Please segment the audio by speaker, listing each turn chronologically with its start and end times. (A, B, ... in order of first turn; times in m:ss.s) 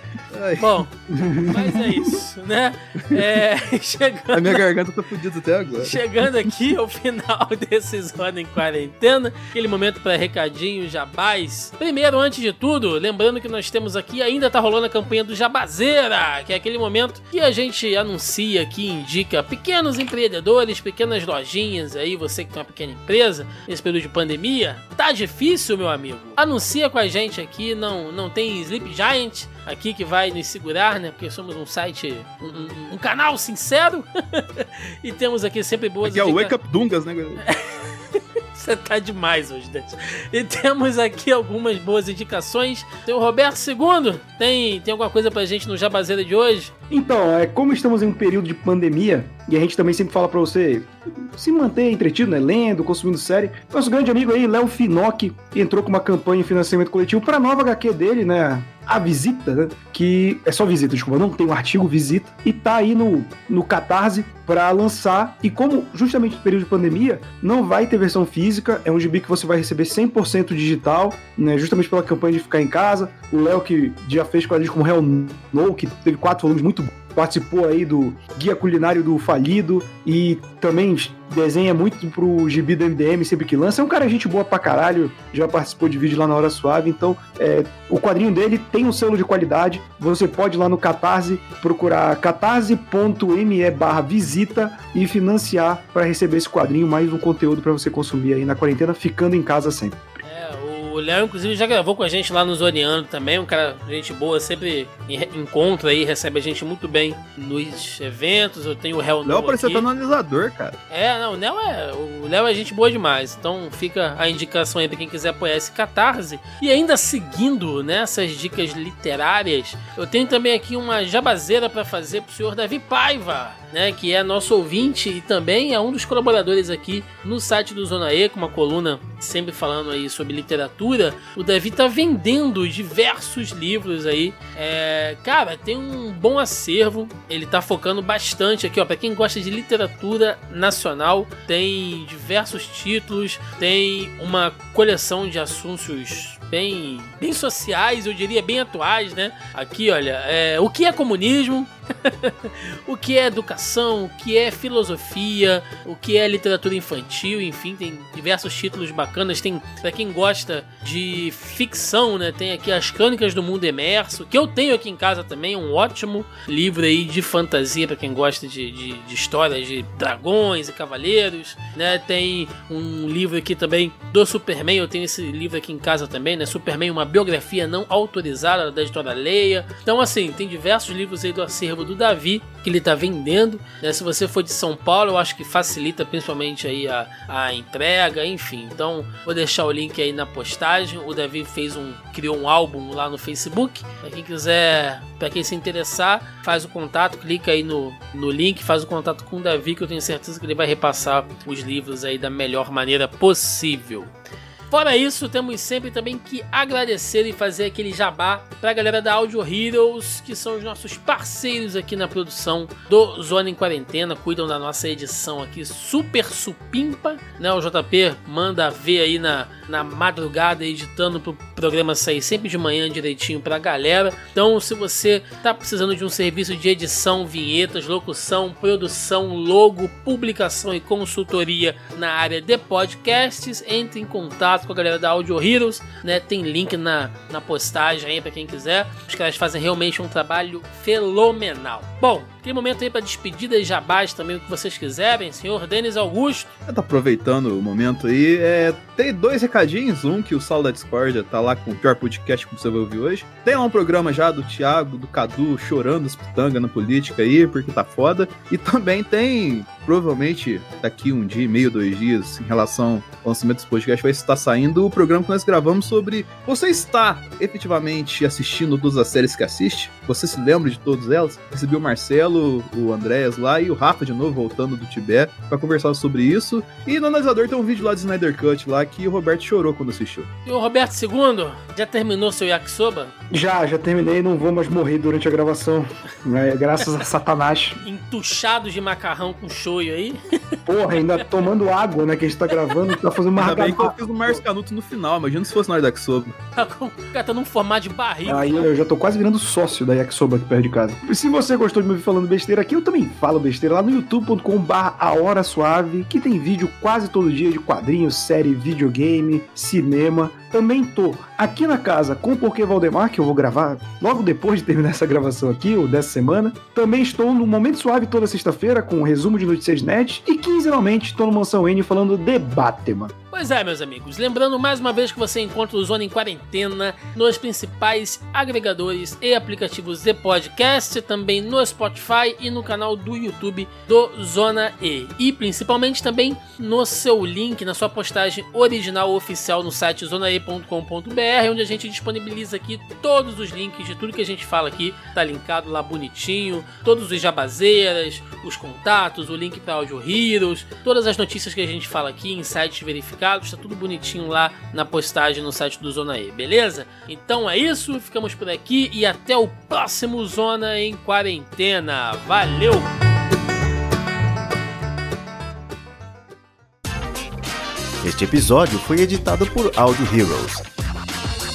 0:00.3-0:00.7 A
0:00.6-0:04.6 B
0:01.1-0:02.1 C
0:04.3-0:06.0 A
0:05.8-0:36.5 B
0:36.0-0:37.4 A
0:37.5-0:46.7 B
0:46.9-1:40.2 C
1:40.2-1:49.9 B
1:49.2-1:50.8 A
1:50.9-3:24.1 B
3:24.7-4:06.5 B
4:06.7-4:40.3 A
4:40.4-4:43.1 B
4:43.3-4:47.8 C
4:47.8-4:50.6 B
4:50.7-4:54.4 C
4:53.4-4:56.3 A
4:56.6-4:58.7 B
4:58.2-5:23.1 C
5:23.3-6:02.9 B
6:08.0-6:10.7 D